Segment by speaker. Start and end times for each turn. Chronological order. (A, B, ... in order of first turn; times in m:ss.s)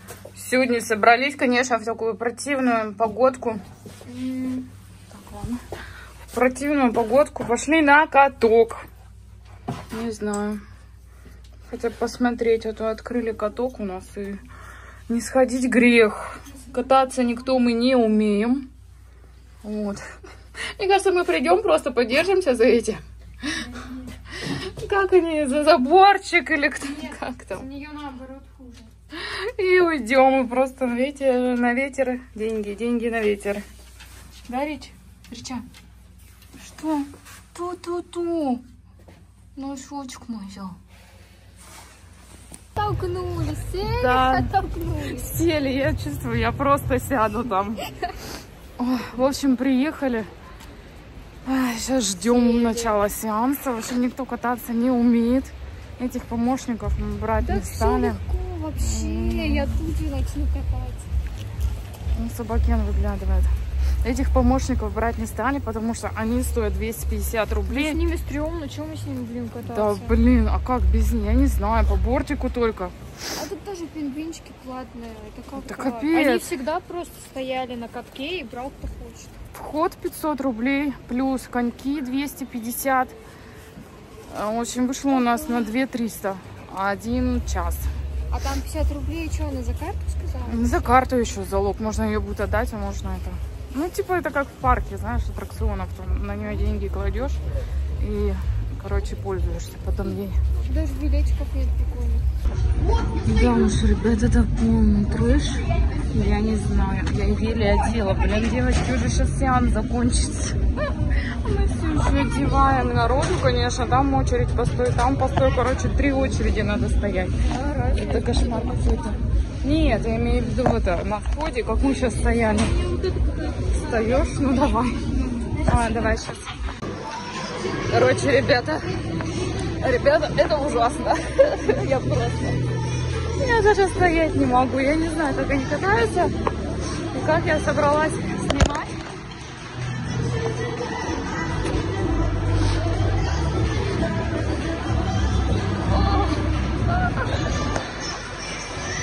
0:00.3-0:03.6 A
0:04.1-0:04.7 B
0:05.1-0:05.6 A
0:06.3-0:08.8 A
0:09.9-0:10.6 A
0:11.7-0:14.4 A
0:15.1-0:18.7 A
0:19.6-0:20.0 A
0:20.8-0:23.7 A
0:24.3-0:27.7 A
0:26.8-0:28.9 B
0:29.1-0:33.6 A
0:34.5-0:35.6 A
0:36.6-0:38.6 A
0:39.6-0:40.8 A
0:42.8-0:45.4 B
0:43.9-0:47.8 A
0:48.8-0:50.3 A
0:51.5-0:58.2 A
0:52.2-0:53.0 B
0:57.4-1:01.1 B
0:58.8-0:59.8 A
1:02.1-1:03.5 A
1:04.0-1:08.0 A
1:07.7-1:10.2 B
1:09.7-1:12.9 A
1:13.4-1:19.3 B
1:15.6-1:16.5 A
1:19.5-1:23.2 A
1:24.3-1:27.9 A
1:25.1-1:25.7 B
1:28.3-1:31.0 B
1:30.5-1:37.4 A
1:38.0-1:40.4 A
1:40.7-1:42.3 B
1:43.2-1:50.6 A
1:51.2-2:02.9 A
1:57.5-1:59.0 B
2:02.8-2:04.2 B
2:03.7-2:06.5 A
2:05.4-2:06.2 B
2:07.9-2:09.0 A
2:09.8-2:12.6 A
2:13.4-2:16.3 A
2:17.1-2:19.0 A
2:25.9-2:26.5 A